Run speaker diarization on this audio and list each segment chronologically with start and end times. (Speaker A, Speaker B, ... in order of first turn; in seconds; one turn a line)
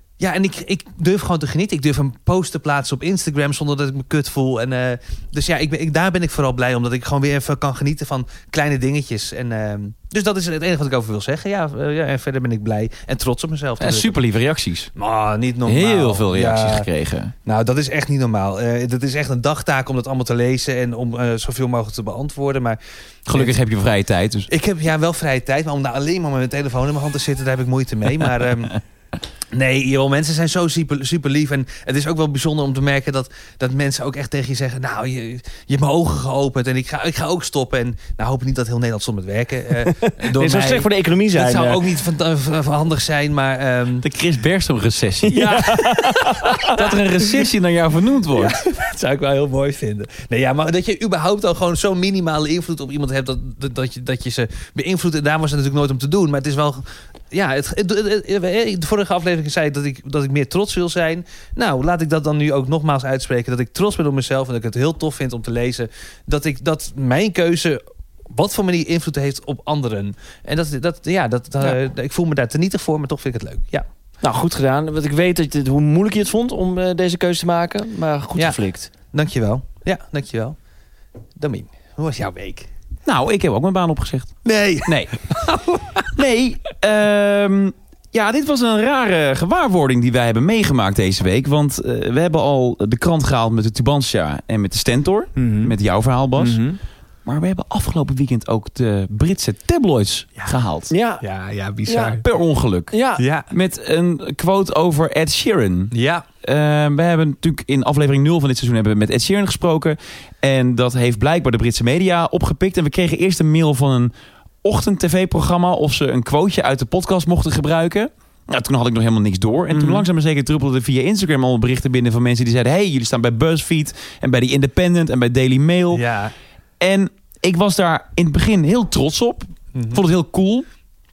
Speaker A: 0.2-14.2
Speaker B: 13.8-14.9
Speaker A: 15.0-16.9
Speaker B: 15.7-17.3
Speaker A: 17.4-22.8
Speaker B: 23.3-24.5
Speaker A: 24.5-28.8
Speaker A: 29.5-44.0
Speaker C: 39.9-41.9
Speaker B: 44.0-45.7
Speaker C: 45.3-46.7
Speaker A: 45.3-47.4
Speaker B: 46.7-48.6
Speaker A: 48.4-73.8
Speaker C: 74.2-78.9
Speaker A: 79.1-80.6
Speaker A: 81.4-82.7
Speaker B: 83.1-85.1
Speaker A: 84.5-86.1
Speaker B: 86.2-96.6
Speaker C: 95.4-95.8
Speaker C: 96.4-96.8
Speaker B: 97.2-100.9
Speaker C: 100.9-101.2
Speaker A: 101.2-102.2
Speaker B: 102.0-102.9
Speaker C: 102.9-103.2
Speaker A: 103.2-103.5
Speaker B: 103.5-105.9
Speaker A: 105.9-106.2
Speaker B: 106.4-114.1
Speaker B: 114.6-126.0
Speaker A: 119.7-120.0
Speaker A: 125.9-126.3
Speaker B: 126.8-130.7
Speaker A: 129.8-130.0